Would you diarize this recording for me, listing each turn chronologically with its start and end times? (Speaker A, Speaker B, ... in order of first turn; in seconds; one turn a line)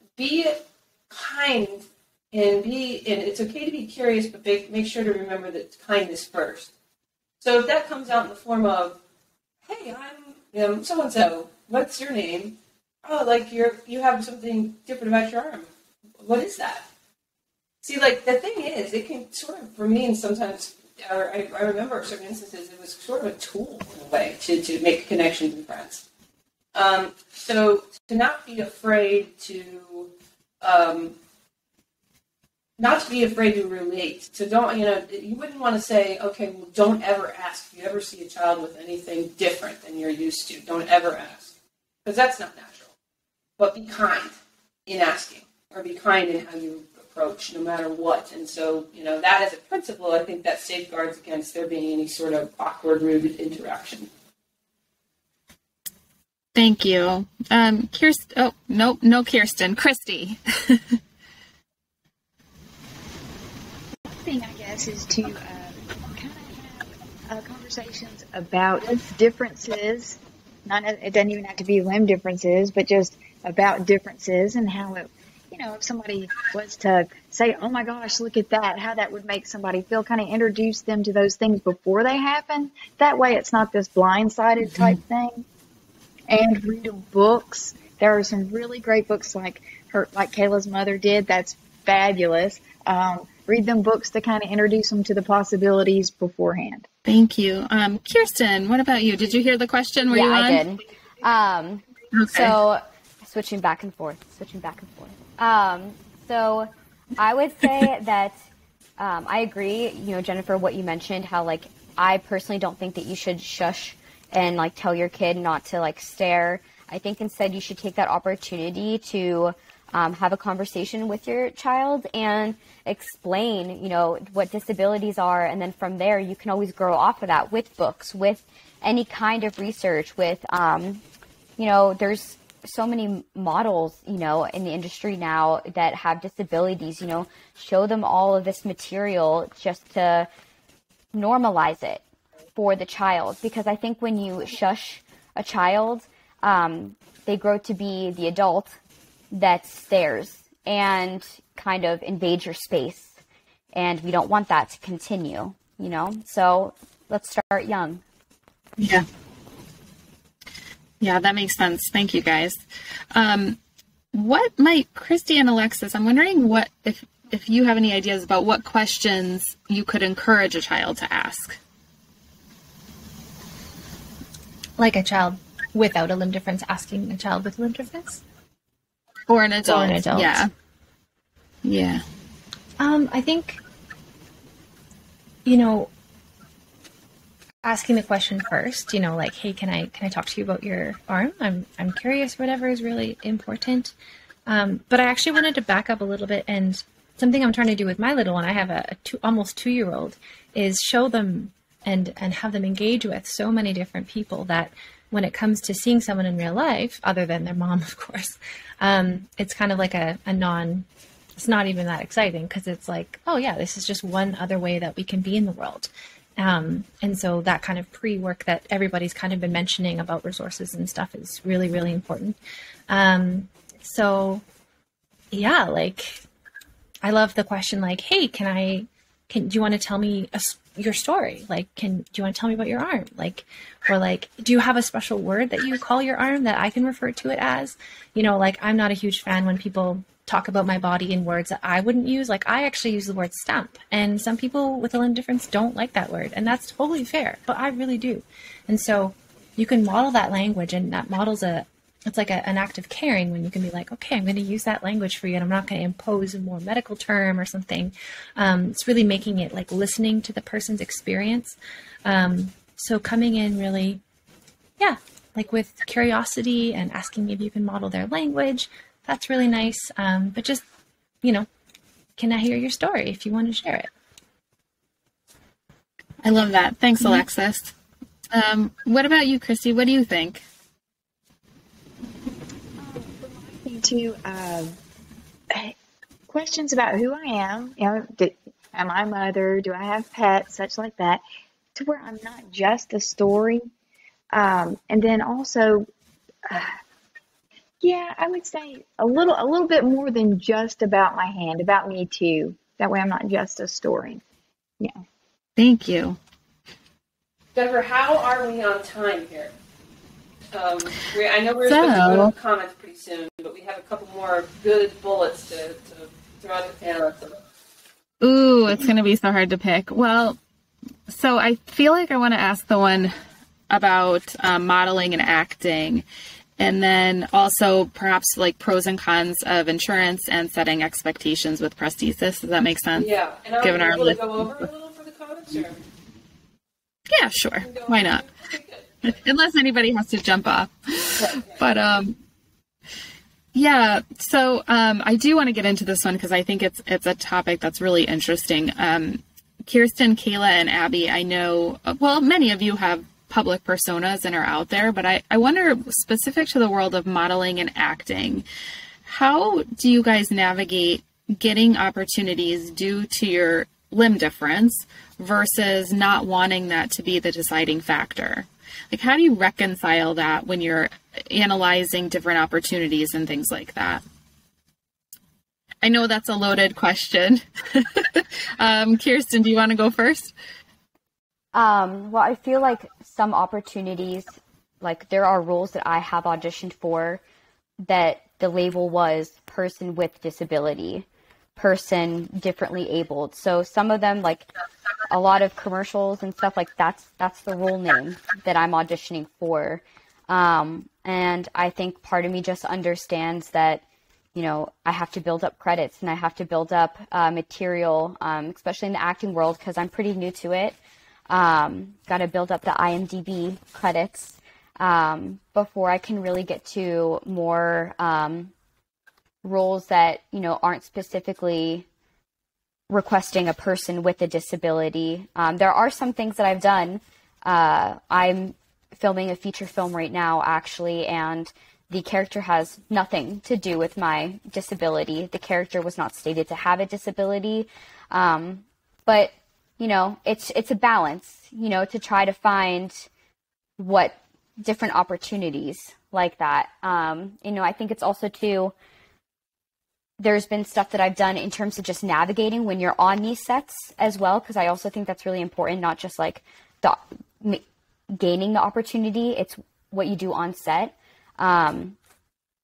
Speaker A: 0.2-6.7
Speaker A: 7.4-9.0
Speaker A: 9.7-16.9
Speaker A: 17.8-26.0
Speaker A: 26.7-31.2
Speaker A: 32.8-41.5
Speaker A: 42.0-42.9
Speaker A: 43.6-54.1
Speaker B: 56.5-61.0
Speaker C: 64.0-85.5
Speaker C: 86.3-96.9
Speaker B: 97.0-100.7
Speaker D: 100.1-108.4
Speaker B: 102.1-102.6
Speaker D: 109.0-131.0
Speaker D: 131.6-140.3
Speaker D: 141.1-142.0
Speaker D: 142.6-148.8
Speaker D: 149.3-153.1
Speaker D: 153.7-158.0
Speaker B: 158.8-159.1
Speaker B: 161.0-163.6
Speaker B: 164.1-171.6
Speaker E: 174.8-178.2
Speaker B: 179.3-180.5
Speaker E: 179.6-180.4
Speaker B: 181.6-182.0
Speaker E: 182.8-183.6
Speaker E: 185.4-185.9
Speaker E: 187.6-193.9
Speaker E: 194.5-210.9
Speaker E: 211.4-222.4
Speaker E: 222.9-224.4
Speaker E: 225.3-226.2
Speaker E: 227.0-264.0
Speaker E: 264.8-270.6
Speaker E: 272.2-273.9
Speaker B: 276.2-277.7
Speaker B: 278.3-280.4
Speaker C: 282.8-284.8
Speaker C: 286.3-291.2
Speaker C: 291.8-293.7
Speaker C: 294.3-295.9
Speaker C: 296.5-296.8
Speaker C: 297.8-304.2
Speaker B: 305.6-306.2
Speaker A: 307.5-309.5
Speaker A: 310.5-317.4
Speaker B: 311.6-312.3
Speaker B: 318.2-320.4
Speaker B: 321.1-323.1
Speaker B: 323.7-326.1
Speaker B: 326.6-333.1
Speaker A: 332.9-335.8
Speaker B: 333.6-334.5
Speaker B: 337.1-338.2
Speaker A: 337.6-339.2
Speaker B: 339.1-342.2
Speaker A: 341.1-341.6
Speaker B: 343.5-358.5
Speaker B: 359.1-374.0
Speaker B: 375.8-380.3
Speaker D: 381.5-387.2
Speaker D: 387.8-394.5
Speaker D: 395.1-403.8
Speaker D: 404.4-410.8
Speaker D: 411.3-418.5
Speaker D: 419.4-421.9
Speaker D: 422.9-443.1
Speaker D: 443.8-448.8
Speaker D: 450.2-462.0